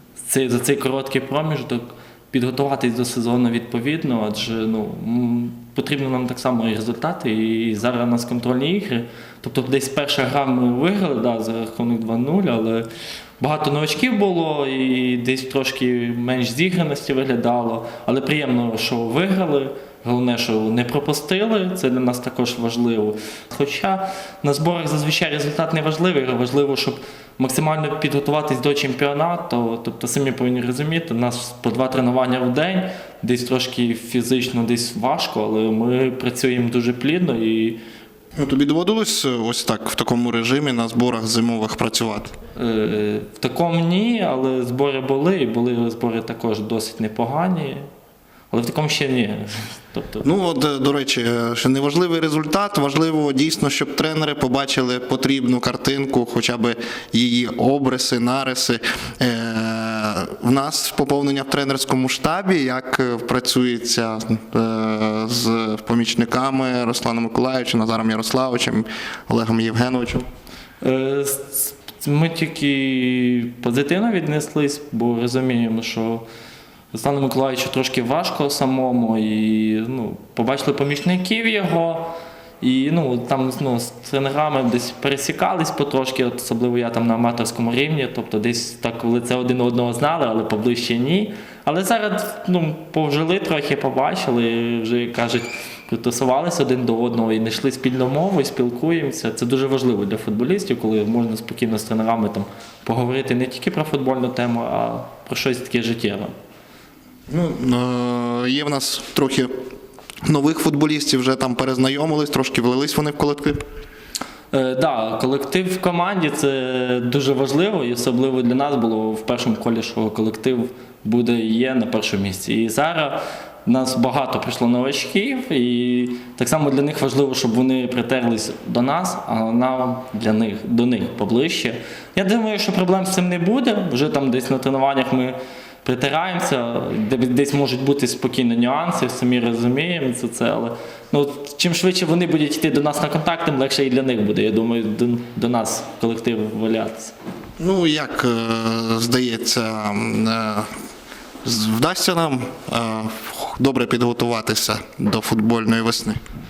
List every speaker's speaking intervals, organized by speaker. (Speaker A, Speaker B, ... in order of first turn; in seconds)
Speaker A: 0.2-12.9, 13.4-37.8, 42.5-47.8, 48.5-50.2, 70.8-76.2, 76.9-106.3, 114.5-147.1
Speaker B: 38.4-42.3, 50.2-70.2, 107.3-109.5, 110.2-113.6, 147.6-150.7, 151.4-156.2